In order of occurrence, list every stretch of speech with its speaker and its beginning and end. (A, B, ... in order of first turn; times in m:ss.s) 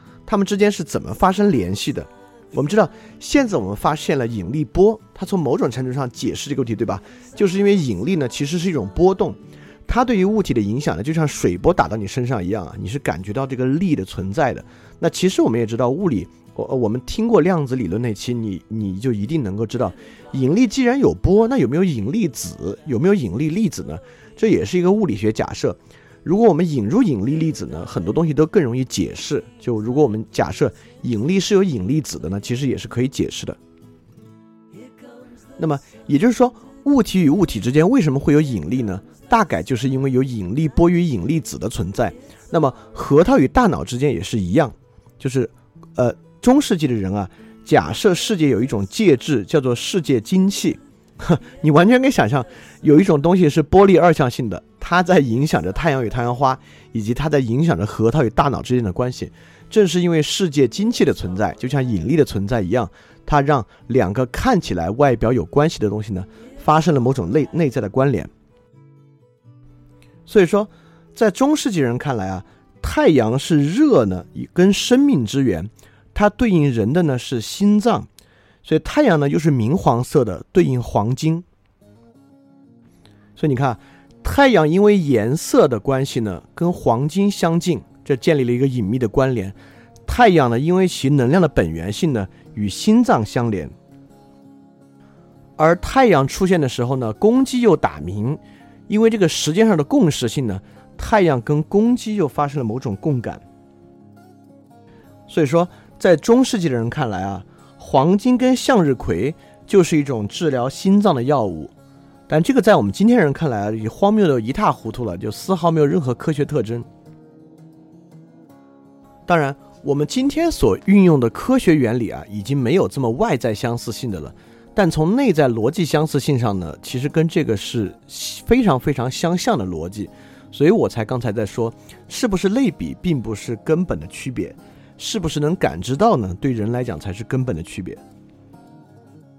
0:00.2-0:33.6 A
0:35.6-1:08.3 A
1:10.3-1:18.1 A
1:18.6-1:21.4 A
1:23.4-1:29.5 A
1:30.0-1:33.7 A
1:35.6-1:43.4 A
1:45.3-1:51.7 A
1:52.3-1:56.9 A
1:59.3-2:18.0 A